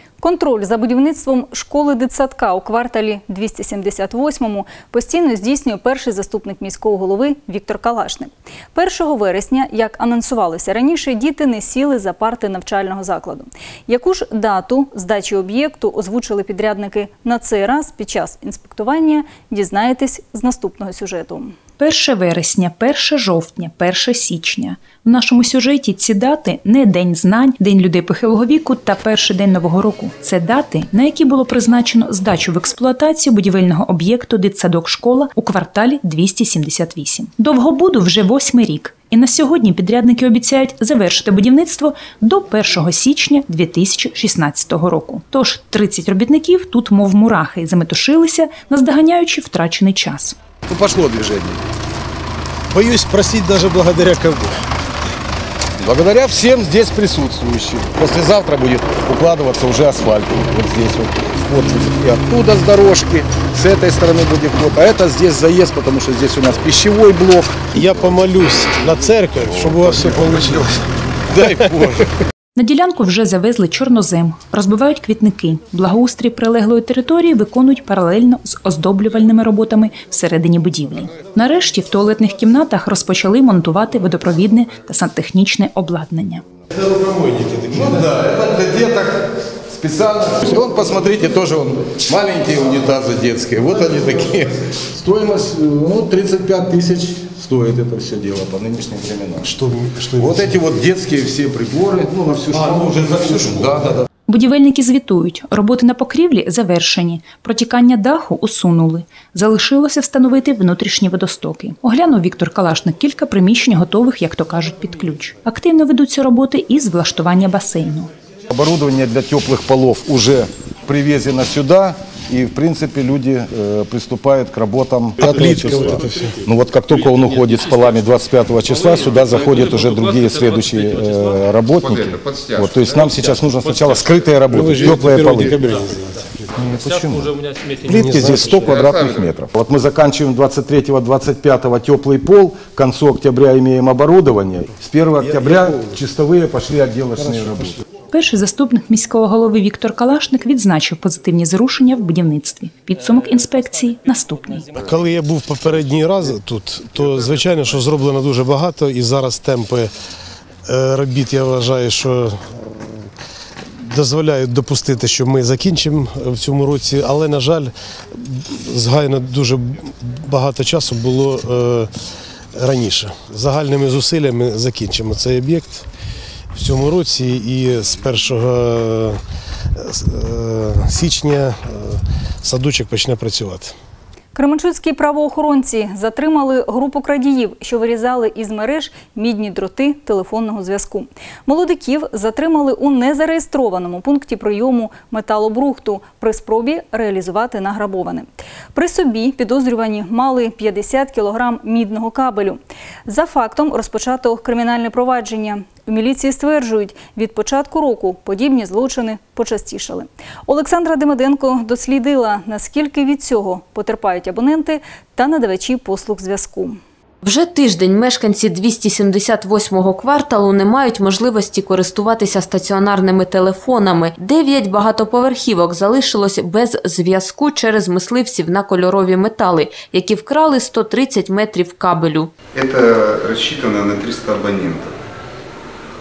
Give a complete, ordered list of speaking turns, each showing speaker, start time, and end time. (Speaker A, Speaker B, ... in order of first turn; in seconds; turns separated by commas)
Speaker A: 0.2-21.6, Speaker B: 21.8-50.4, Speaker C: 50.7-51.6, Speaker D: 52.7-54.6, Speaker C: 55.8-67.4, Speaker D: 66.8-67.1, Speaker D: 67.6-70.7, Speaker D: 71.3-71.9, Speaker C: 71.3-72.0, Speaker B: 72.6-86.4, Speaker D: 86.8-88.3, Speaker C: 87.8-89.2, Speaker C: 89.7-99.5, Speaker D: 99.4-100.7, Speaker C: 100.2-104.0, Speaker B: 104.3-118.1, Speaker C: 118.5-135.8, Speaker D: 125.2-126.5, Speaker D: 134.5-137.2, Speaker C: 136.8-137.3, Speaker D: 137.8-139.0, Speaker C: 137.9-147.7, Speaker D: 145.2-146.0, Speaker D: 147.2-147.4, Speaker B: 148.1-154.7, Speaker D: 154.8-159.9, Speaker D: 160.7-162.4, Speaker D: 163.8-167.7, Speaker D: 168.2-171.9, Speaker D: 172.6-175.8, Speaker D: 176.5-179.2, Speaker D: 179.8-183.7, Speaker A: 184.3-216.8, Speaker E: 217.2-232.3, Speaker F: 232.6-234.9